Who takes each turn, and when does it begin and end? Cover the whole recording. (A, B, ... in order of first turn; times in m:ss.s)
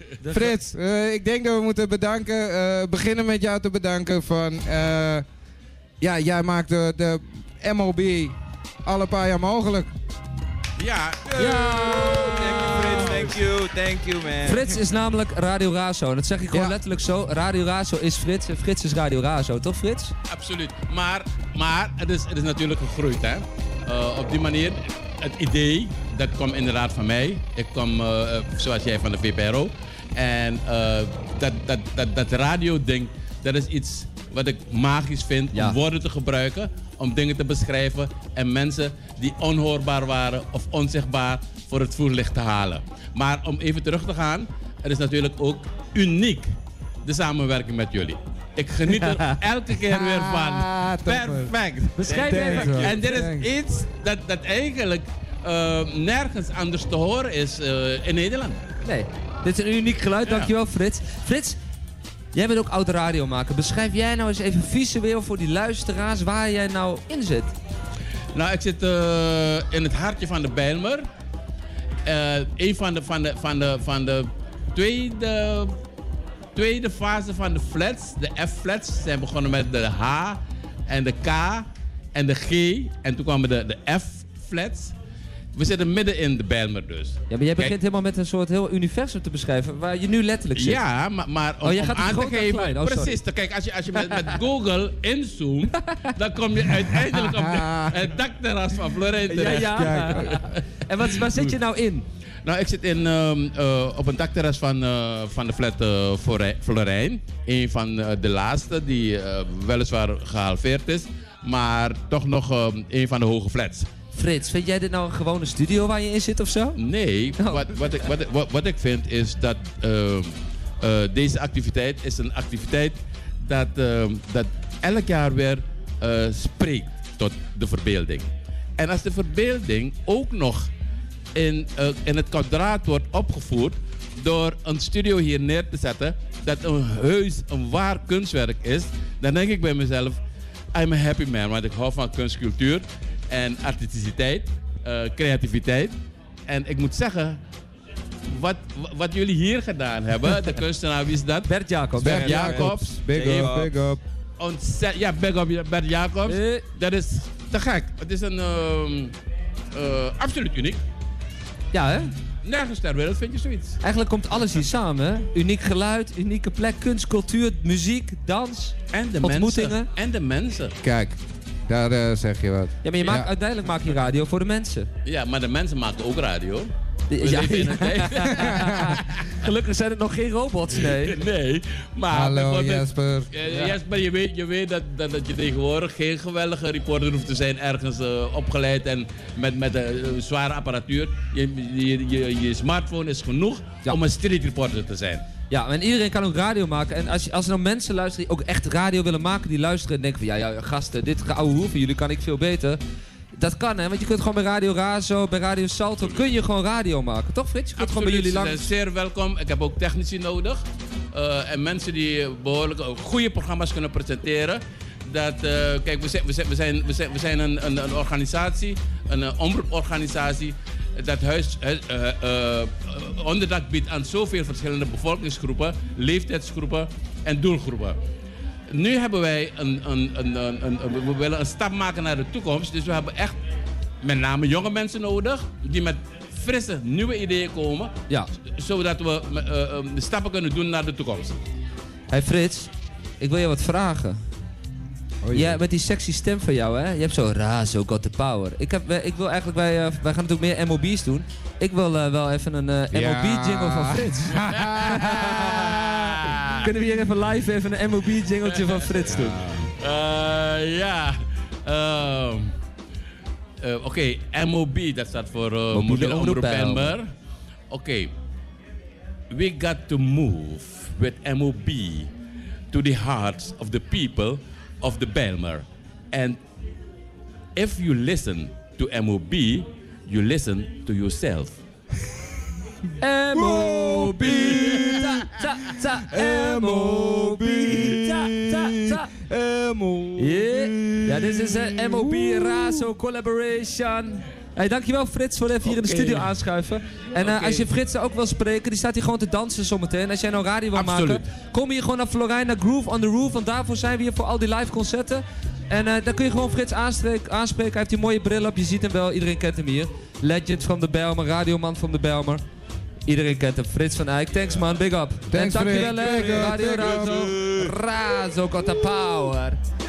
0:00.2-0:00.6 A
0:00.3-0:05.2 B
0:06.0-0:09.9 B
0:10.8-0:11.4 C
0:11.3-0:14.7 D
0:11.4-0:13.3 A
0:14.4-0:20.1 A
0:16.5-0:16.8 B
0:20.3-0:58.6 C
0:48.9-0:49.3 A
0:49.9-0:51.5 B
0:52.0-0:53.1 A
0:52.1-0:53.5 B
0:58.8-1:01.6 A
1:00.2-1:00.5 C
1:02.3-1:07.5 A
1:08.3-1:11.0 C
1:12.0-1:15.7 C
1:16.5-1:24.9 C
1:25.5-1:27.8 C
1:27.3-1:30.8 A
1:30.5-1:41.5 C
1:31.6-1:33.2 A
1:34.0-1:34.4 A
1:35.7-1:36.0 A
1:37.0-1:38.0 B
1:39.3-1:42.0 A
1:39.6-1:40.3 B
1:42.4-1:53.9 C
1:54.1-1:56.8 A
1:56.8-2:10.7 C
1:57.4-1:57.9 A
2:11.3-2:20.2 C
2:20.7-2:26.0 C
2:26.5-2:27.4 C
2:28.3-2:31.5 C
2:31.5-2:32.6 A
2:32.0-2:34.0 B
2:32.0-2:33.6 C
2:32.0-2:33.8 D
2:34.4-2:39.1 C
2:36.2-2:36.6 A
2:39.7-2:40.8 C
2:41.7-2:42.1 A
2:42.4-2:43.8 C
2:43.8-2:49.9 A
2:48.9-2:50.8 C
2:50.8-2:53.3 B
2:52.8-2:54.9 A
2:55.0-2:59.2 C
2:57.1-3:01.2 A
2:58.3-2:59.0 B
3:00.8-3:15.2 C
3:02.1-3:03.3 B
3:03.5-3:03.7 A
3:15.5-3:22.8 A
3:23.4-3:28.7 A
3:27.8-3:48.0 C
3:48.7-3:53.4 C
3:54.0-3:57.9 C
3:58.5-4:01.4 C
4:02.1-4:04.2 A
4:05.2-4:05.6 B
4:05.3-4:15.7 A
4:12.9-4:16.2 B
4:14.5-4:16.6 C
4:16.6-4:19.6 A
4:18.4-4:22.5 C
4:19.1-4:19.6 B
4:23.6-4:27.1 C
4:25.7-4:27.0 A
4:27.7-4:28.1 C
4:29.3-4:32.1 C
4:32.7-4:36.4 C
4:37.6-4:41.6 C
4:43.0-4:49.1 A
4:43.3-4:52.9 B
4:44.3-4:45.0 C
4:50.2-5:12.4 A
4:55.6-4:56.3 C
4:57.2-4:57.7 C
5:00.7-5:01.2 C
5:13.1-5:19.6 A
5:15.3-5:17.3 B
5:15.5-5:17.7 C